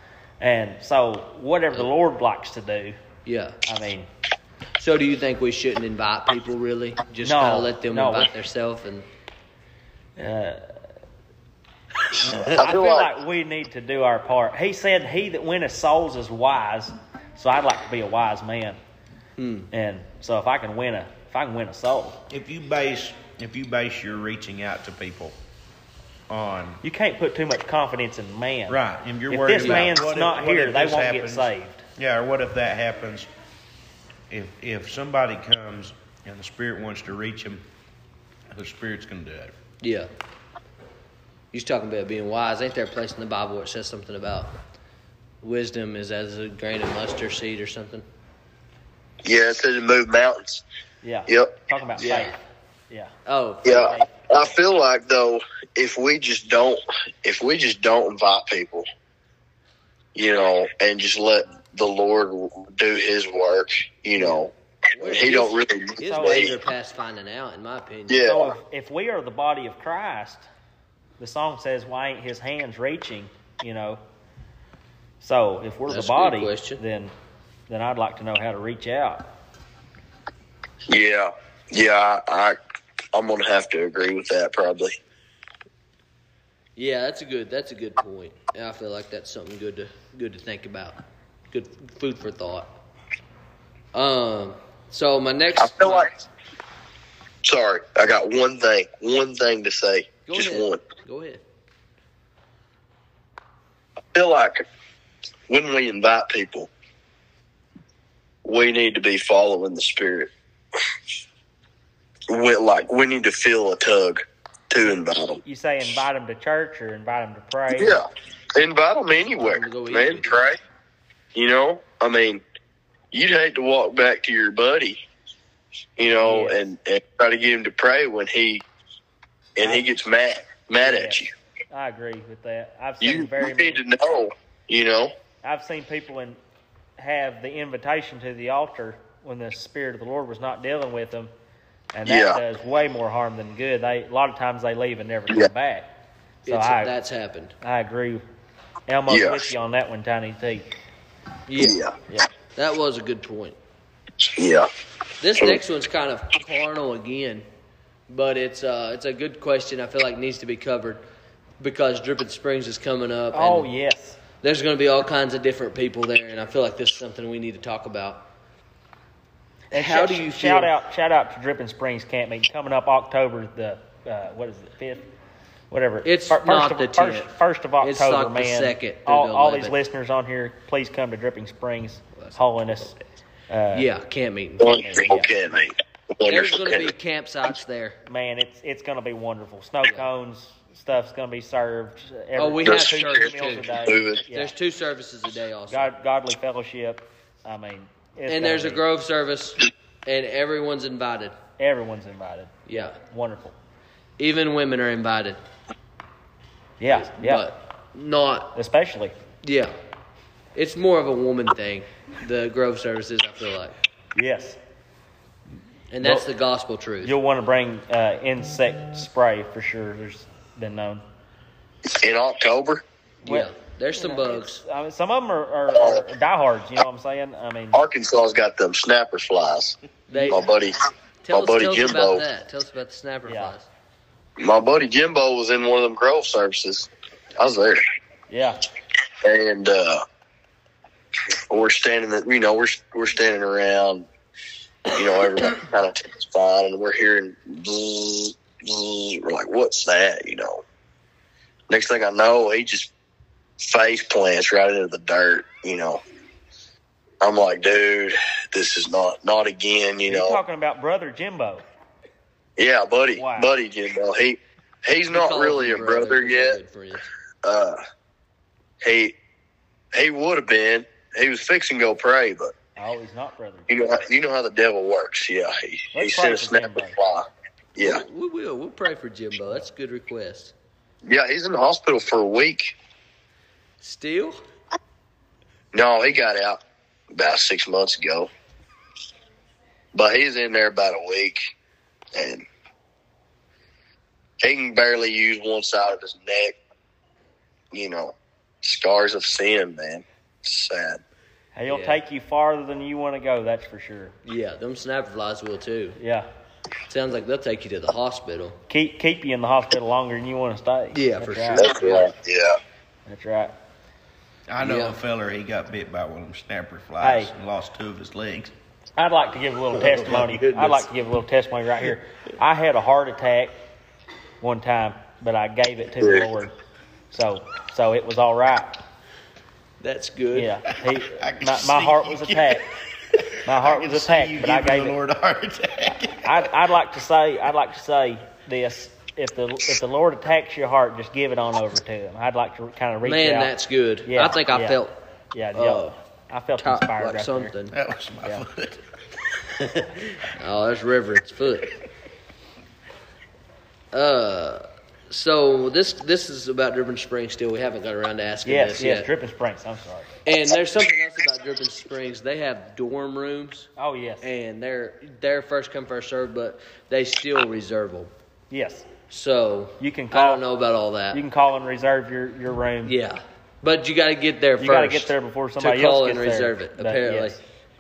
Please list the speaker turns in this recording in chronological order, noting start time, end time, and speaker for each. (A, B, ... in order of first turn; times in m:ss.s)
0:00.4-0:03.0 A
0:03.2-0:03.6 B
0:03.6-0:04.1 A
0:04.8-0:09.1 B
0:07.2-0:08.3 A
0:10.2-0:10.8 A
0:12.3-0:18.8 A
0:12.3-0:13.1 C
0:19.4-0:19.7 B
0:19.7-0:22.2 A
0:22.3-0:25.4 D
0:26.3-0:26.8 D
0:26.8-0:31.8 A
0:28.7-0:33.3 D
0:29.6-0:29.9 B
0:34.3-0:37.6 D
0:38.5-0:39.5 D
0:39.8-0:40.1 B
0:41.5-0:44.5 B
0:45.4-0:48.0 B
0:49.2-0:50.6 C
0:51.0-0:52.4 A
0:51.3-0:51.5 C
0:52.0-0:52.3 B
0:53.2-0:54.0 B
0:53.6-0:58.8 C
0:53.7-0:54.6 A
1:00.1-1:06.5 C
1:04.1-1:08.3 B
1:06.0-1:06.6 A
1:08.1-1:08.5 C
1:08.2-1:10.4 A
1:11.2-1:14.0 A
1:15.2-1:17.1 A
1:15.9-1:16.8 B
1:17.7-1:19.3 A
1:20.9-1:22.6 C
1:23.1-1:25.0 C
1:26.8-1:31.0 B
1:31.5-1:32.7 B
1:33.9-1:36.1 B
1:35.6-1:36.1 C
1:37.4-1:40.8 C
1:40.2-1:41.4 B
1:44.1-1:44.6 C
1:45.5-1:46.7 C
1:48.4-1:50.3 C
1:52.3-1:55.4 C
1:55.4-1:58.0 A
1:57.7-2:00.6 C
1:59.4-2:00.4 B
2:01.3-2:02.4 C
2:03.1-2:05.0 C
2:06.0-2:08.6 C
2:06.2-2:06.6 A
2:09.6-2:11.3 C
2:10.8-2:13.8 A
2:13.0-2:15.1 C
2:15.4-2:16.4 A
2:17.0-2:21.3 A
2:21.9-2:25.9 A
2:22.0-2:22.4 C
2:26.4-2:26.9 A
2:26.4-2:27.5 B
2:27.6-2:28.2 A
2:28.9-2:30.7 A
2:29.1-2:29.5 C
2:31.5-2:31.8 B
2:31.6-2:31.9 C
2:32.6-2:33.6 B
2:34.4-2:34.7 C
2:35.2-2:37.4 B
2:38.1-2:41.0 B
2:41.6-2:43.7 B
2:43.3-2:44.2 A
2:44.4-2:48.2 B
2:49.7-2:55.1 A
2:49.7-2:50.7 B
2:55.7-3:02.9 A
2:56.0-2:59.8 B
3:02.2-3:03.0 B
3:03.5-3:03.9 A
3:03.7-3:05.3 B
3:04.6-3:06.9 C
3:06.2-3:08.0 B
3:08.1-3:14.5 A
3:12.4-3:15.9 B
3:12.6-3:14.2 C
3:15.7-3:18.8 A
3:18.3-3:21.3 B
3:21.6-3:23.6 A
3:22.7-3:22.9 B
3:24.2-3:25.4 B
3:26.8-3:27.4 A
3:26.9-3:28.5 B
3:28.5-3:29.1 A
3:29.4-3:29.7 B
3:30.5-3:33.8 B
3:34.2-3:34.6 A
3:35.9-3:37.1 B
3:36.0-3:36.3 A
3:37.0-3:41.0 A
3:42.0-3:42.8 C
3:43.2-3:44.6 B
3:43.2-3:47.8 A
3:45.7-3:46.0 C
3:47.7-3:49.8 C
3:50.1-3:50.5 B
3:50.1-3:50.4 A
3:50.3-3:50.7 C
3:51.2-3:53.7 B
3:51.3-3:52.2 C
3:53.3-3:53.5 A
3:54.4-3:57.8 C
3:58.3-3:58.6 A
3:59.2-4:00.0 C
4:01.5-4:04.1 C
4:04.9-4:10.6 C
4:11.7-4:12.9 C
4:13.6-4:16.0 C
4:17.2-4:20.4 C
4:20.0-4:21.6 A
4:22.6-4:26.6 C
4:23.2-4:23.5 A
4:25.1-4:27.1 B
4:27.4-4:27.8 C
4:28.8-4:29.2 C
4:29.9-4:32.5 C
4:32.8-4:33.7 A
4:33.7-4:38.0 C
4:35.9-4:37.0 A
4:37.8-4:40.5 B
4:41.0-4:42.7 C
4:43.8-4:44.4 B
4:45.7-4:46.6 C
4:47.1-4:48.3 C
4:49.9-4:51.4 C
4:52.1-4:52.4 C
4:54.4-4:56.6 C
4:57.7-5:01.0 C
5:01.5-5:04.2 A
5:01.7-5:02.0 B
5:04.2-5:06.0 B
5:06.0-5:06.3 A
5:06.9-5:08.6 B
5:08.7-5:11.7 A
5:10.9-5:12.1 B
5:11.6-5:12.6 C
5:13.0-5:13.6 A
5:14.5-5:18.5 D
5:14.6-5:15.0 B
5:17.0-5:17.3 A
5:19.0-5:23.6 A
5:19.8-5:20.8 B
5:19.9-5:20.3 D
5:24.4-5:26.5 A
5:27.1-5:28.8 A
5:29.8-5:30.5 B
5:30.3-5:32.7 A
5:30.8-5:36.5 D
5:33.4-5:35.0 A
5:36.2-5:43.5 A
5:43.0-5:45.0 B
5:44.1-5:44.8 A
5:45.3-5:47.5 A
5:45.5-5:45.9 B
5:46.6-5:47.8 B
5:47.7-5:48.8 D
5:49.4-5:49.9 D
5:50.2-5:51.8 B
5:53.9-5:59.1 B
5:58.4-6:00.1 A
6:00.2-6:03.7 B
6:03.8-6:04.2 A
6:04.2-6:08.1 B
6:08.5-6:08.9 A
6:09.1-6:11.2 B
6:09.8-6:10.4 A
6:11.1-6:13.0 A
6:12.8-6:17.4 B
6:14.6-6:17.4 A